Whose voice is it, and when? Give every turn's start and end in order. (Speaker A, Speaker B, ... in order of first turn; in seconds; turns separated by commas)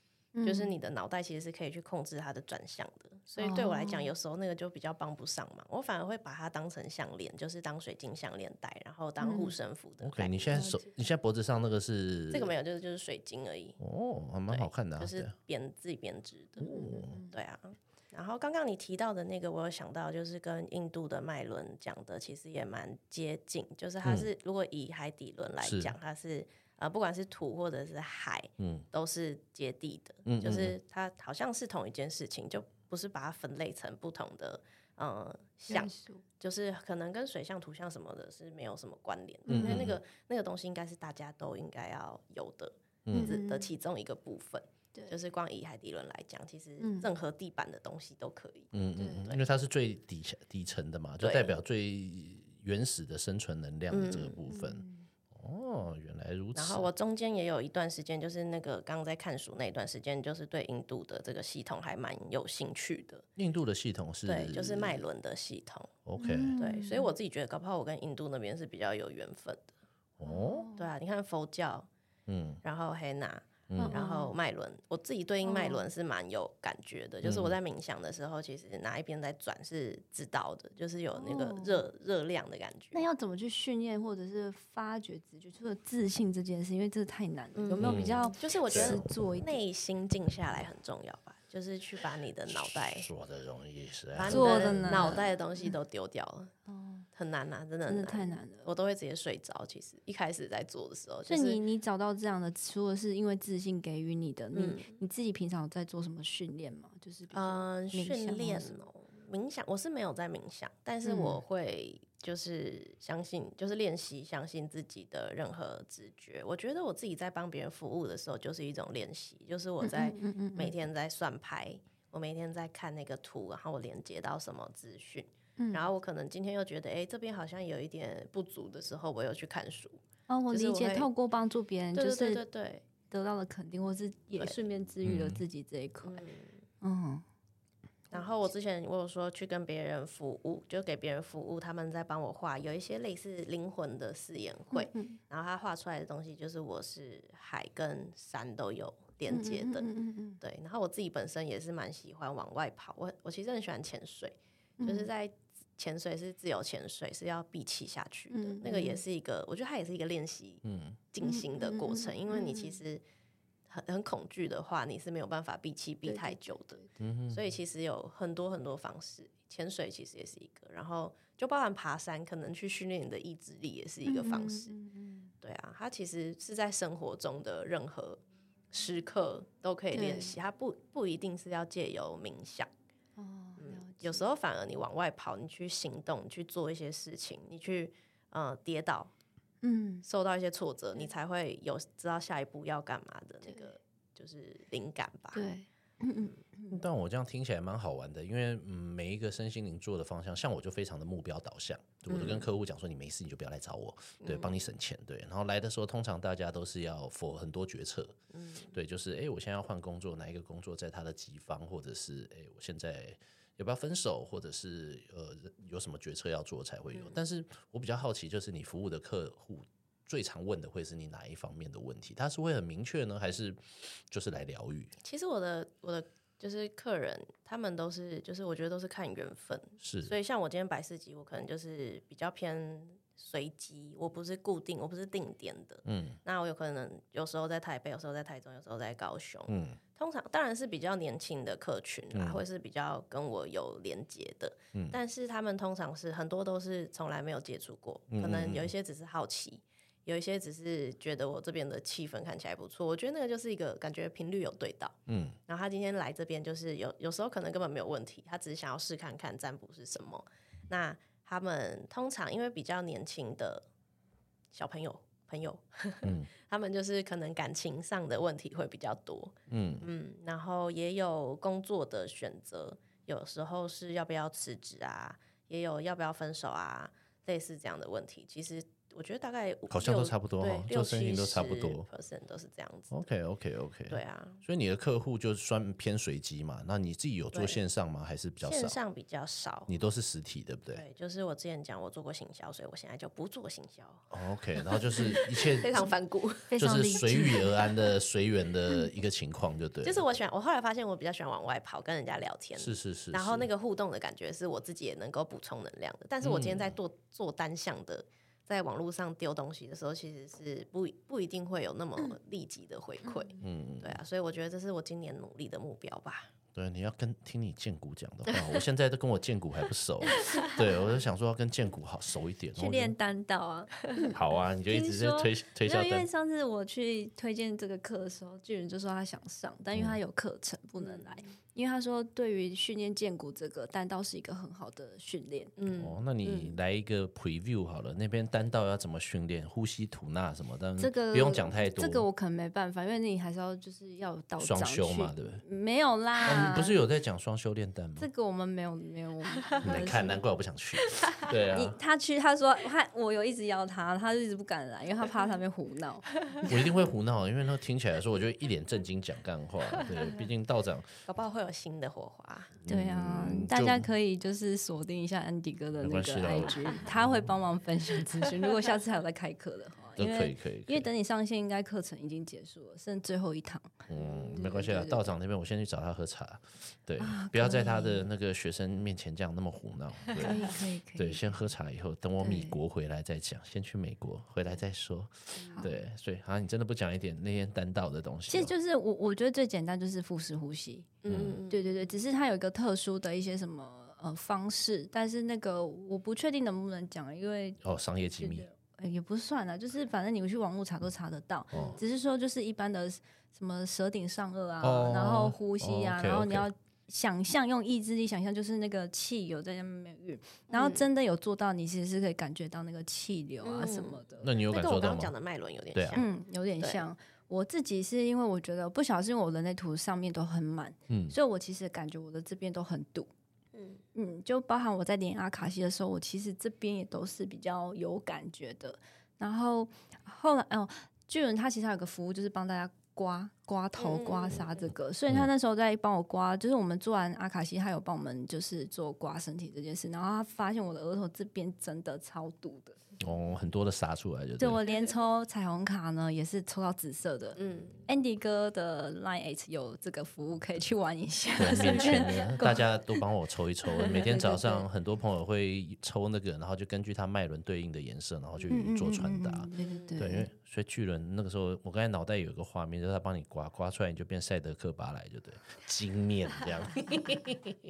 Speaker A: 0.3-0.7, Speaker B: 0.4-10.7, Speaker A: 3.4-4.1, Speaker A: 9.2-9.5, Speaker C: 10.0-12.5, Speaker A: 10.5-10.9, Speaker B: 12.3-13.8, Speaker C: 13.8-15.3, Speaker B: 14.5-49.4, Speaker C: 16.6-17.2, Speaker A: 16.6-17.3, Speaker C: 24.0-24.3, Speaker C: 25.6-25.9, Speaker C: 28.6-28.9, Speaker C: 30.2-30.7, Speaker A: 35.7-36.2, Speaker A: 39.5-39.8, Speaker C: 39.5-40.0, Speaker C: 43.0-43.4, Speaker A: 43.1-43.7, Speaker A: 46.8-47.1, Speaker C: 48.7-56.9, Speaker B: 51.2-51.5, Speaker B: 53.9-54.4, Speaker A: 54.5-55.0, Speaker B: 56.5-63.3, Speaker C: 63.4-65.0, Speaker B: 64.3-65.9, Speaker C: 66.0-66.6, Speaker A: 66.2-67.1, Speaker B: 66.6-69.7, Speaker C: 70.2-70.7, Speaker A: 70.2-70.9, Speaker B: 70.8-71.9, Speaker C: 72.3-72.6, Speaker B: 72.6-83.0, Speaker C: 73.7-74.0, Speaker A: 73.8-74.4, Speaker A: 75.4-75.8, Speaker C: 77.2-77.6, Speaker A: 81.2-81.8, Speaker A: 82.9-89.6, Speaker B: 87.5-93.1, Speaker C: 87.8-89.0, Speaker C: 92.5-95.2, Speaker B: 94.1-96.5, Speaker A: 94.3-95.7, Speaker A: 96.7-97.0, Speaker B: 97.1-101.6, Speaker A: 97.9-98.7, Speaker A: 101.3-108.8, Speaker B: 104.5-105.0, Speaker B: 107.3-131.1, Speaker A: 111.0-111.4, Speaker A: 119.8-120.7, Speaker A: 125.6-125.8, Speaker A: 130.3-132.4, Speaker B: 131.9-132.9, Speaker A: 133.1-136.2, Speaker C: 135.0-135.4, Speaker B: 136.0-136.6, Speaker A: 136.8-137.2, Speaker B: 138.1-149.9, Speaker A: 144.7-145.2, Speaker A: 149.3-150.4, Speaker B: 150.4-163.0, Speaker A: 154.8-155.1, Speaker A: 158.3-159.0, Speaker C: 160.6-161.0, Speaker A: 161.2-162.8, Speaker B: 163.7-174.7, Speaker A: 166.1-166.9, Speaker C: 167.0-167.4, Speaker A: 174.1-175.3, Speaker B: 175.4-182.7, Speaker A: 179.9-180.3, Speaker A: 183.2-184.2, Speaker B: 183.6-189.1, Speaker A: 189.6-190.1, Speaker B: 190.1-195.5, Speaker A: 195.3-196.8, Speaker C: 196.7-208.2, Speaker B: 202.1-202.5, Speaker B: 204.2-204.7, Speaker B: 208.3-208.7, Speaker C: 208.7-224.9, Speaker B: 216.9-217.2, Speaker B: 225.0-263.7, Speaker C: 229.8-230.1, Speaker C: 235.8-236.2, Speaker C: 239.5-239.8, Speaker C: 242.1-242.4, Speaker C: 248.1-248.7, Speaker C: 255.1-255.4, Speaker B: 264.5-283.0, Speaker C: 266.0-266.3, Speaker C: 269.5-269.9, Speaker C: 279.7-281.9, Speaker C: 282.9-288.8, Speaker B: 283.9-284.4, Speaker B: 287.3-287.6, Speaker B: 288.4-289.7, Speaker C: 289.7-290.8, Speaker B: 290.7-294.1, Speaker C: 294.1-295.9, Speaker B: 294.7-296.5, Speaker A: 296.5-297.7, Speaker C: 296.6-300.1, Speaker B: 299.8-316.3, Speaker C: 302.6-303.5, Speaker C: 306.2-306.8, Speaker A: 313.1-313.3, Speaker C: 313.4-314.0, Speaker C: 316.5-322.9, Speaker A: 322.6-324.2, Speaker B: 323.9-324.1, Speaker C: 324.1-326.1, Speaker A: 324.7-335.5, Speaker B: 330.8-331.3, Speaker B: 335.6-336.6, Speaker C: 335.7-342.1, Speaker A: 340.8-346.8, Speaker C: 344.4-345.4, Speaker C: 346.2-348.1, Speaker A: 348.0-350.2, Speaker B: 349.4-349.9, Speaker C: 349.6-351.8, Speaker A: 351.5-356.2, Speaker C: 356.4-360.9, Speaker B: 361.1-362.5, Speaker C: 362.6-363.9, Speaker A: 362.7-375.1, Speaker C: 365.8-367.3, Speaker C: 370.0-370.9, Speaker C: 373.9-388.5, Speaker B: 373.9-374.4, Speaker A: 377.0-378.1, Speaker A: 380.2-381.3, Speaker A: 382.2-382.6, Speaker B: 385.4-385.7, Speaker A: 385.4-385.7, Speaker A: 388.3-414.3, Speaker B: 391.0-392.0, Speaker C: 391.1-391.4, Speaker C: 397.6-398.5, Speaker C: 401.5-401.8, Speaker B: 401.5-401.8, Speaker C: 404.6-406.5, Speaker B: 410.5-410.9, Speaker B: 413.4-416.1, Speaker C: 414.2-415.1, Speaker C: 415.7-416.0, Speaker A: 415.9-423.1, Speaker B: 416.6-416.8, Speaker C: 420.9-421.1, Speaker B: 423.5-423.8, Speaker A: 423.9-442.8, Speaker B: 433.8-434.7, Speaker C: 443.0-444.6, Speaker A: 444.4-452.7, Speaker B: 447.4-447.8, Speaker C: 451.4-467.4, Speaker B: 451.6-452.1, Speaker A: 453.9-454.6, Speaker A: 458.5-460.3, Speaker B: 459.6-460.0, Speaker B: 466.9-467.1